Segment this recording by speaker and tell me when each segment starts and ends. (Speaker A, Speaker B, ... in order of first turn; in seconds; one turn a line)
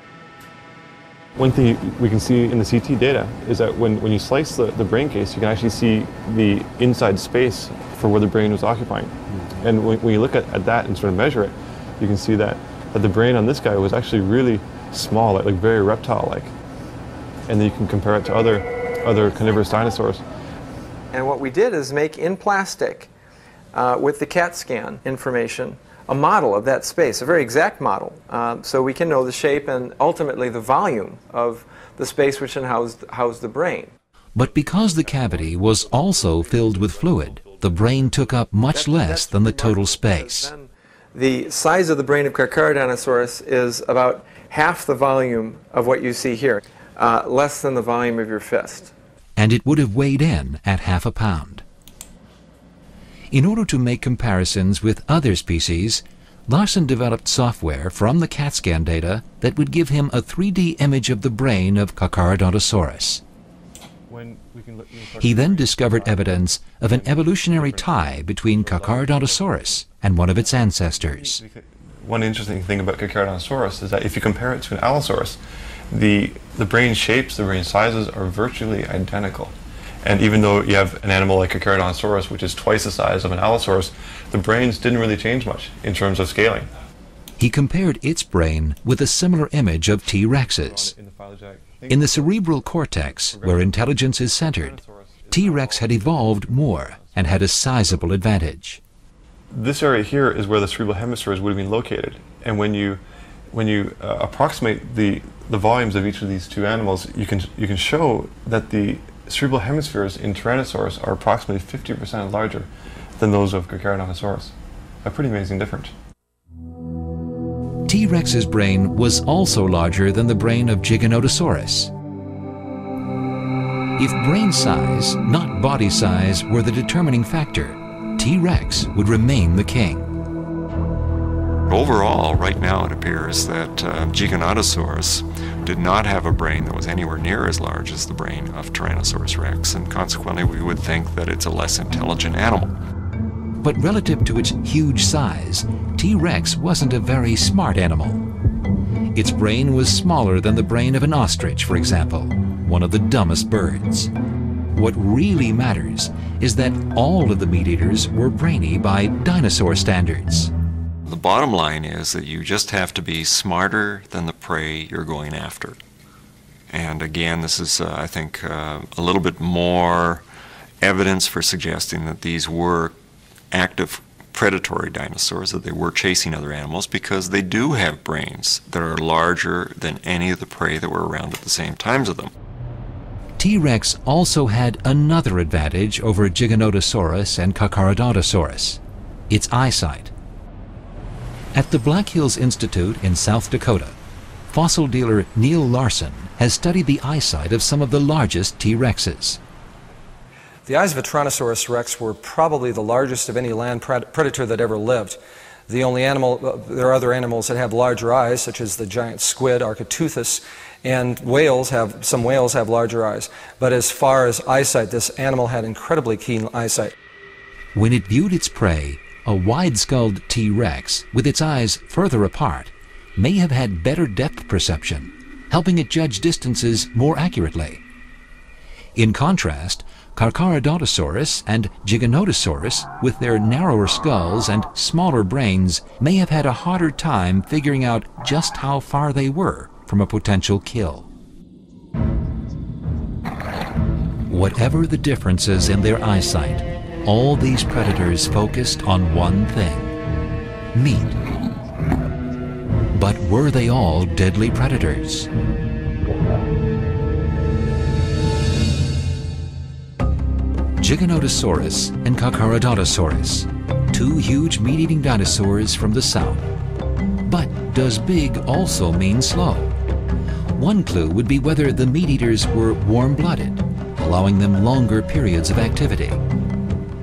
Speaker A: 1.4-16.5
Speaker A: 17.5-20.2
Speaker B: 21.1-23.1
Speaker B: 23.7-33.9
Speaker C: 34.4-40.5
Speaker A: 34.4-38.2
Speaker B: 38.7-48.9
Speaker C: 49.4-51.6
Speaker C: 53.3-63.2
Speaker A: 64.1-75.4
Speaker C: 65.2-71.4
Speaker A: 75.9-86.7
Speaker C: 87.4-90.9
Speaker A: 90.3-93.9
Speaker C: 91.9-98.8
Speaker A: 94.5-98.1
Speaker A: 99.5-103.0
Speaker A: 103.5-114.5
Speaker A: 115.0-115.9
Speaker C: 117.9-121.9
Speaker C: 124.0-130.1
Speaker D: 131.7-142.8
Speaker C: 143.6-148.2
Speaker C: 149.2-154.1
Speaker C: 154.7-160.5
Speaker D: 161.1-165.8
Speaker D: 166.7-170.2
Speaker D: 170.8-173.0
Speaker D: 173.5-182.3
Speaker C: 183.4-190.1
Speaker C: 191.6-194.0
Speaker C: 194.5-199.4
Speaker E: 200.7-216.9
Speaker C: 217.8-227.8
Speaker C: 229.0-241.1
Speaker C: 244.3-249.9
Speaker C: 250.7-251.2
Speaker C: 252.9-255.3
Speaker C: 260.8-266.4
Speaker C: 267.2-269.7
Speaker C: 270.6-276.2